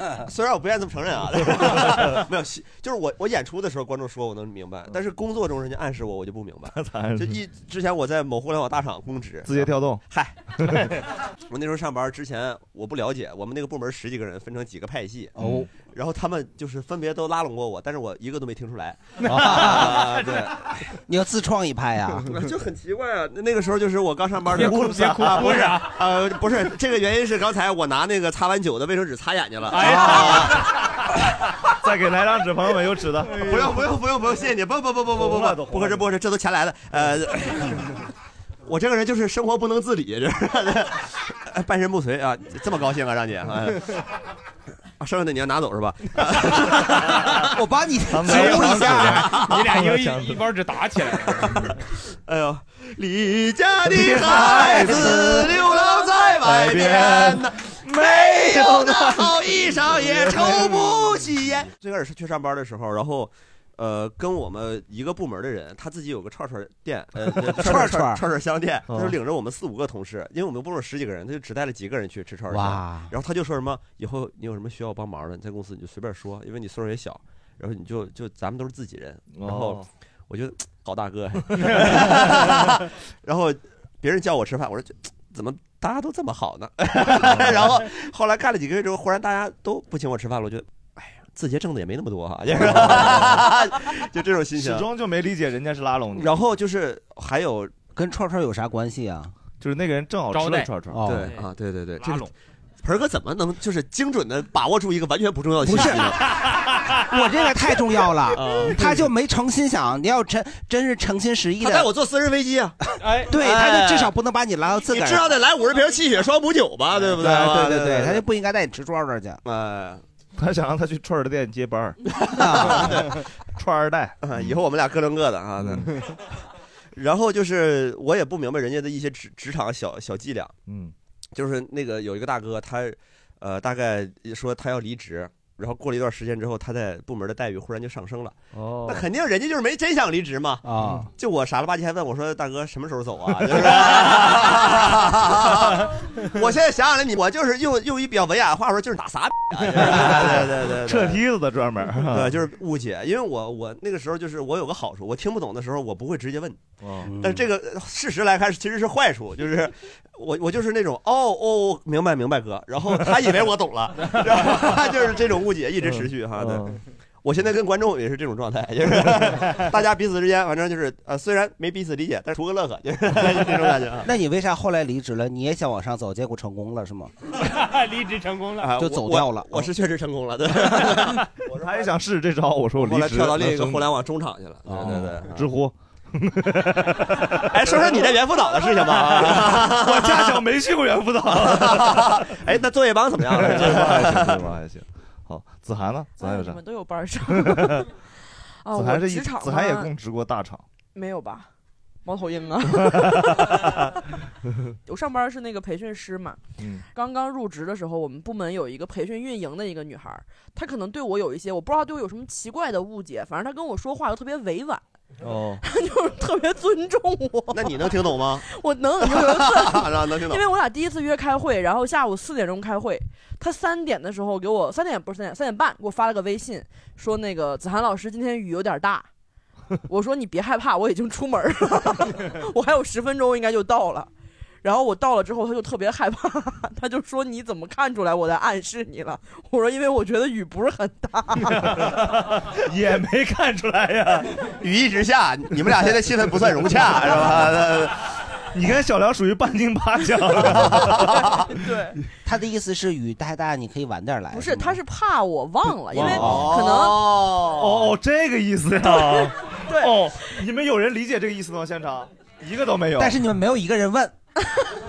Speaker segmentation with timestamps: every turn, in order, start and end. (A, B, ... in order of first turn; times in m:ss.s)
0:00.2-0:10.4 A
0:01.6-0:02.2 B
0:06.7-0:07.4 B
0:09.4-0:10.0 B
0:10.6-0:10.8 B
0:11.5-0:15.4 A
0:15.4-0:15.7 C
0:15.4-0:15.7 B
0:15.9-0:20.5 A
0:19.3-0:20.2 C
0:21.1-0:22.4 C
0:22.3-0:30.6 A
0:24.5-0:26.0 D
0:24.5-0:25.7 B
0:29.7-0:30.6 D
0:31.8-0:33.7 B
0:33.4-0:37.8 A
0:35.1-0:36.1 B
0:38.6-0:43.8 A
0:45.0-0:47.4 A
0:47.5-0:49.4 C
0:48.1-0:50.5 B
0:48.3-0:51.7 D
0:51.2-1:34.8 A
0:53.9-0:55.6 B
0:54.6-0:55.5 C
0:56.4-0:59.4 B
1:00.0-1:00.9 B
1:07.4-1:08.2 C
1:08.9-1:09.2 B
1:12.5-1:13.1 C
1:19.3-1:19.9 B
1:27.2-1:27.5 B
1:32.7-1:33.2 B
1:34.6-1:36.4 B
1:36.1-1:37.7 A
1:38.0-1:39.3 C
1:39.6-1:41.0 B
1:40.3-1:42.3 D
1:40.9-1:41.3 C
1:41.0-1:42.3 A
1:42.8-1:46.2 A
1:45.6-1:46.2 C
1:46.4-1:47.0 D
1:47.0-1:51.9 C
1:48.3-1:49.0 A
1:51.6-1:52.8 A
1:53.0-1:53.4 D
1:53.2-1:55.4 C
1:53.4-1:54.1 A
1:54.9-1:58.2 A
1:57.2-1:59.4 C
1:59.4-2:00.0 A
2:00.4-2:02.0 B
2:02.3-2:03.0 C
2:02.3-2:03.0 A
2:02.6-2:04.6 B
2:04.2-2:06.0 A
2:05.6-2:05.9 B
2:07.0-2:10.6 A
2:10.7-2:10.9 B
2:11.4-2:20.6 A
2:18.5-2:19.1 B
2:20.7-2:21.1 C
2:21.2-2:31.2 A
2:30.8-2:32.4 B
2:32.1-2:54.1 A
2:36.8-2:37.1 B
2:45.9-2:46.8 B
2:54.0-2:57.1 C
2:57.3-2:58.8 D
2:58.6-3:01.9 A
2:58.7-2:59.5 C
3:01.5-3:03.9 B
3:02.8-3:05.4 A
3:04.8-3:08.0 B
3:07.4-3:10.4 A
3:08.8-3:12.3 B
3:11.3-3:14.4 A
3:13.2-3:16.6 B
3:16.2-3:17.9 E
3:17.3-3:17.9 B
3:18.6-3:19.9 E
3:18.7-3:20.6 B
3:21.0-3:21.5 E
3:22.0-3:23.9 E
3:22.8-3:23.8 B
3:24.9-3:26.4 E
3:26.6-3:26.8 B
3:26.9-3:34.8 E
3:35.2-3:35.6 B
3:35.6-3:49.1 E
3:37.5-3:38.5 A
3:39.0-3:40.4 A
3:49.9-3:54.1 E
3:54.6-4:01.9 E
4:01.4-4:04.4 B
4:04.6-4:08.0 A
4:06.4-4:07.6 B
4:08.5-4:11.2 B
4:10.5-4:11.4 A
4:11.5-4:12.0 E
4:12.2-4:14.8 C
4:14.3-4:17.1 E
4:15.9-4:16.6 B
4:16.0-4:17.9 A
4:16.0-4:16.4 C
4:17.5-4:23.2 B
4:18.8-4:20.0 E
4:23.0-4:24.1 C